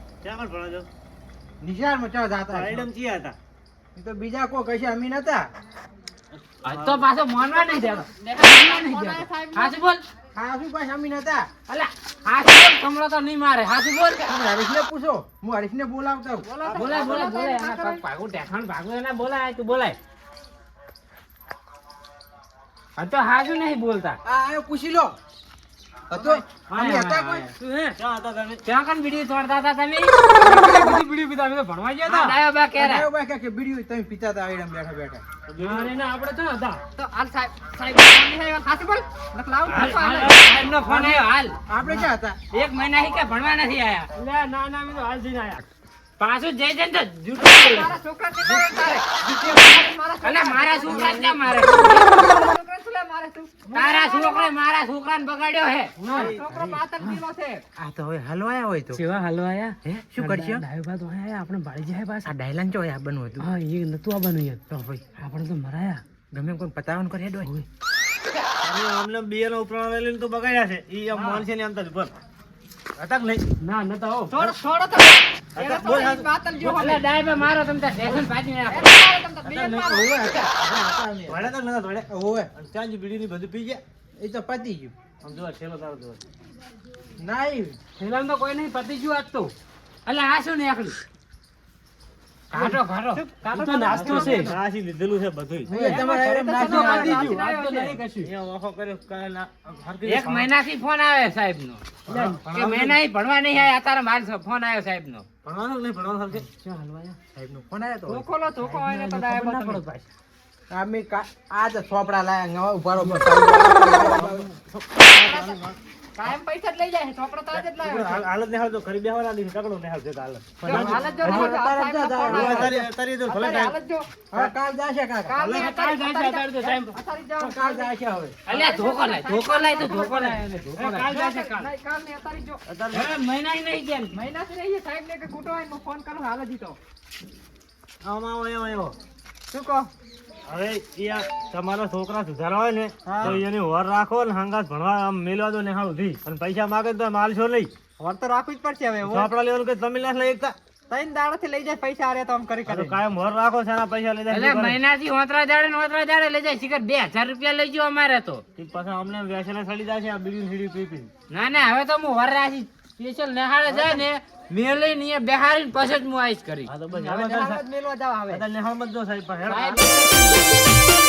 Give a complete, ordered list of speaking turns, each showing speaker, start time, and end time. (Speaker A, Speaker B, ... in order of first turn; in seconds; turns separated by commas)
Speaker A: 0.2-0.9, Speaker B: 1.6-2.9, Speaker A: 2.5-3.4, Speaker B: 4.0-5.5, Speaker A: 6.3-7.0, Speaker C: 6.6-10.0, Speaker D: 7.4-9.8, Speaker B: 10.3-11.5, Speaker C: 11.7-14.2, Speaker B: 14.2-16.5, Speaker D: 16.4-18.0, Speaker A: 16.6-17.2, Speaker C: 16.7-20.0, Speaker C: 22.9-24.2, Speaker B: 24.2-25.1, Speaker B: 26.1-27.5, Speaker C: 26.7-27.5, Speaker E: 27.6-28.0, Speaker A: 28.0-28.6, Speaker C: 28.6-30.1, Speaker E: 30.4-32.4, Speaker C: 32.1-33.1, Speaker B: 32.8-35.2, Speaker A: 35.5-35.9, Speaker E: 35.6-36.8, Speaker D: 37.0-40.3, Speaker C: 39.7-41.6, Speaker B: 40.8-42.4, Speaker C: 42.5-44.1, Speaker E: 44.1-45.6, Speaker C: 46.2-48.0, Speaker D: 47.4-54.5, Speaker B: 48.4-48.8, Speaker C: 49.4-52.4, Speaker C: 53.7-55.9, Speaker E: 56.0-56.4, Speaker D: 56.0-57.6, Speaker B: 56.2-56.8, Speaker E: 57.0-57.2, Speaker B: 57.8-59.0, Speaker E: 58.9-62.3, Speaker B: 59.8-60.6, Speaker B: 62.2-63.5, Speaker E: 63.4-66.0, Speaker B: 64.7-65.1, Speaker B: 66.3-67.5, Speaker A: 68.6-72.1, Speaker D: 71.1-71.4, Speaker A: 73.0-73.5, Speaker E: 73.6-74.4, Speaker D: 74.3-77.0, Speaker A: 75.5-76.3, Speaker C: 76.6-78.9, Speaker D: 78.7-80.1, Speaker A: 79.5-79.8, Speaker B: 79.7-81.5, Speaker A: 81.3-83.8, Speaker B: 82.1-82.5, Speaker B: 84.2-84.9, Speaker A: 85.2-86.2, Speaker B: 87.2-87.8, Speaker E: 88.0-89.5, Speaker C: 90.0-91.0, Speaker C: 92.5-93.2, Speaker E: 92.5-92.8, Speaker D: 93.1-94.5, Speaker E: 93.5-94.6, Speaker A: 93.9-95.7, Speaker B: 95.7-97.4, Speaker D: 95.7-98.0, Speaker E: 96.6-98.3, Speaker A: 98.2-100.5, Speaker C: 100.0-101.8, Speaker E: 102.1-102.5, Speaker A: 102.1-103.0, Speaker C: 102.5-105.2, Speaker A: 105.4-106.5, Speaker E: 106.5-107.2, Speaker B: 107.3-108.3, Speaker D: 108.1-109.8, Speaker E: 108.5-110.1, Speaker B: 110.7-114.5, Speaker E: 113.0-113.2, Speaker A: 113.9-116.3, Speaker D: 115.1-115.6, Speaker D: 116.2-118.2, Speaker A: 117.5-121.5, Speaker B: 120.6-122.9, Speaker D: 120.6-124.5, Speaker A: 122.3-123.7, Speaker B: 124.3-125.7, Speaker D: 125.2-127.9, Speaker A: 125.4-125.7, Speaker E: 125.5-126.9, Speaker B: 127.4-128.4, Speaker D: 128.5-130.4, Speaker C: 128.5-130.4, Speaker E: 130.6-131.7, Speaker A: 130.8-131.1, Speaker D: 130.9-132.6, Speaker A: 132.7-133.2, Speaker C: 132.9-134.1, Speaker D: 134.1-136.8, Speaker A: 138.0-139.0, Speaker D: 139.5-139.9, Speaker A: 140.5-147.7, Speaker D: 143.1-143.4, Speaker D: 148.0-149.3, Speaker A: 149.0-150.6, Speaker D: 150.9-153.0, Speaker A: 152.7-154.8, Speaker C: 154.3-158.4, Speaker A: 158.6-161.1, Speaker C: 161.3-166.7, Speaker A: 163.7-164.0, Speaker A: 166.7-167.6, Speaker D: 166.9-168.4, Speaker A: 168.3-169.8, Speaker C: 169.5-170.3, Speaker D: 169.5-170.3